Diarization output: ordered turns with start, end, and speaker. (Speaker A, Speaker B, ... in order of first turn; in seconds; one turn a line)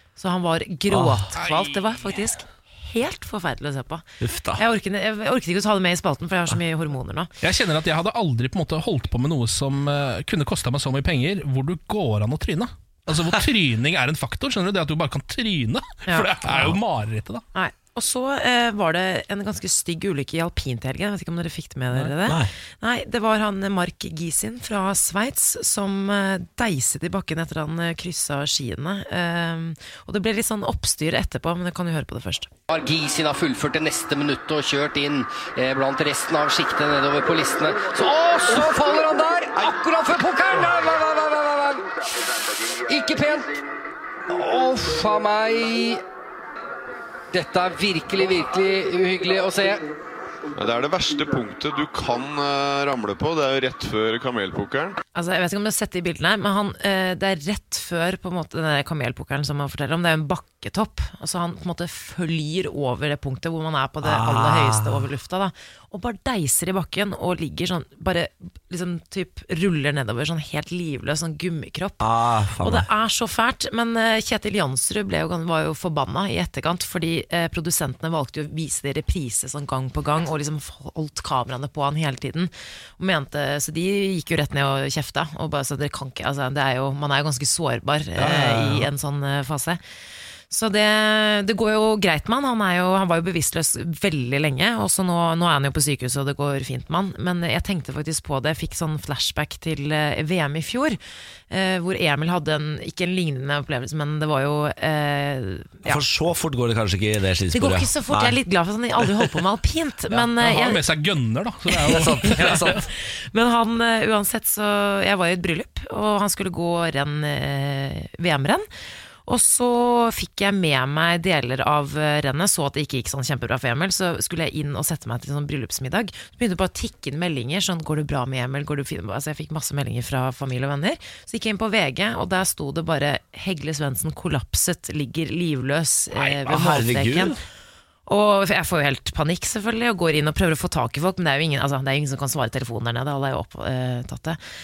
Speaker A: 0.2-7.3
Speaker B: 0.9-1.3
Speaker C: 1.4-2.1
Speaker B: 4.2-4.6
Speaker C: 7.4-17.4
Speaker A: 16.1-16.7
Speaker A: 17.5-32.5
Speaker B: 22.2-22.5
Speaker D: 32.7-41.9
Speaker D: 42.9-43.5
Speaker D: 44.3-46.0
Speaker D: 47.3-49.8
Speaker E: 50.5-55.0
Speaker A: 55.1-72.0
Speaker B: 64.0-65.1
Speaker B: 72.0-72.9
Speaker A: 72.6-89.8
Speaker B: 88.2-88.9
Speaker A: 90.5-101.0
Speaker A: 101.5-106.0
Speaker B: 105.8-108.4
Speaker A: 107.5-110.8
Speaker C: 110.1-112.8
Speaker B: 111.8-112.8
Speaker A: 112.3-118.7
Speaker A: 119.2-137.3
Speaker B: 136.2-137.4
Speaker A: 138.1-144.4